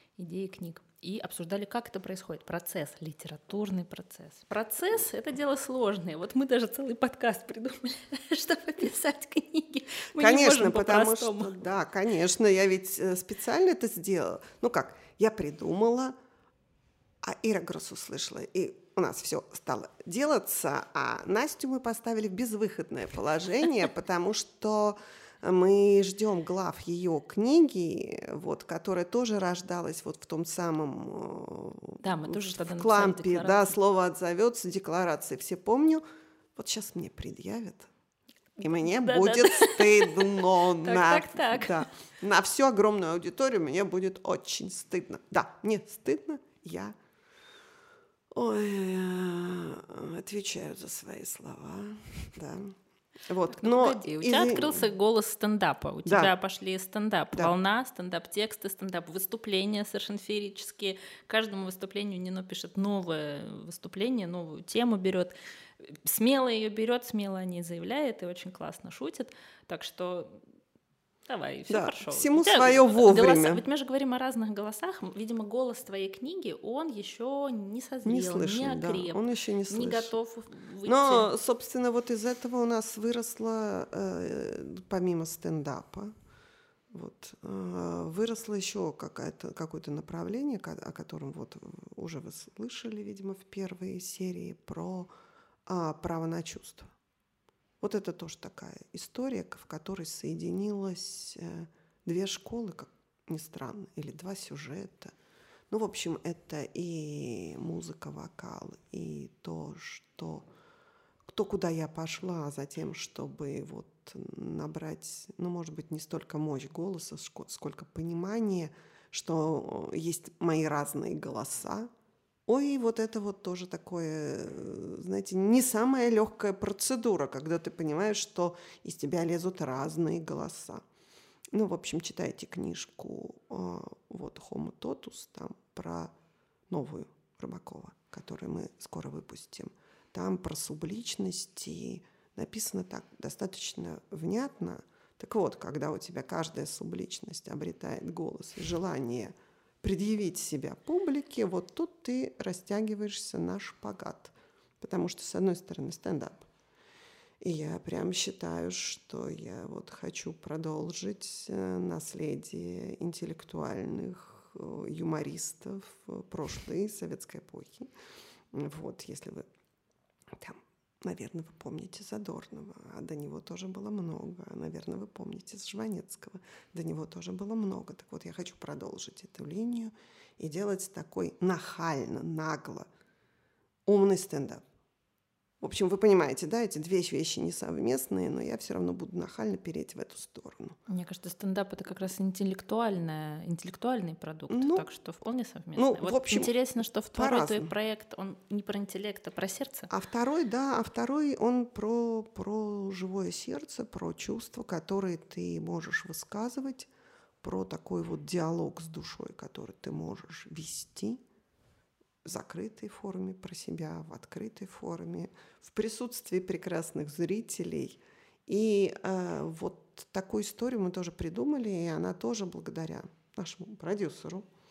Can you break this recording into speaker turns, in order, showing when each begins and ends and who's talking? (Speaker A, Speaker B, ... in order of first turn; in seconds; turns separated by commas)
Speaker A: 0.2-11.7, Speaker B: 10.2-16.2, Speaker B: 17.2-36.0, Speaker A: 32.0-33.7, Speaker B: 36.6-37.9, Speaker B: 38.6-47.0, Speaker A: 38.6-41.9, Speaker B: 48.3-54.9, Speaker A: 53.5-65.3, Speaker B: 56.0-56.3, Speaker A: 65.9-70.4, Speaker A: 71.3-81.3, Speaker B: 71.7-73.6, Speaker B: 78.0-80.1, Speaker B: 80.8-86.1, Speaker B: 86.9-95.1, Speaker B: 95.7-96.9, Speaker B: 97.8-105.2, Speaker B: 105.7-110.5, Speaker B: 111.3-121.9, Speaker B: 122.5-130.8, Speaker B: 131.5-136.1, Speaker B: 136.7-156.5, Speaker B: 157.4-167.9, Speaker B: 168.5-169.4, Speaker B: 170.3-182.9, Speaker B: 183.9-184.6, Speaker B: 185.6-190.8, Speaker A: 190.9-199.9, Speaker B: 194.5-194.9, Speaker B: 195.8-196.5, Speaker B: 197.1-197.7, Speaker B: 199.9-206.9, Speaker B: 207.4-211.2, Speaker B: 212.2-224.5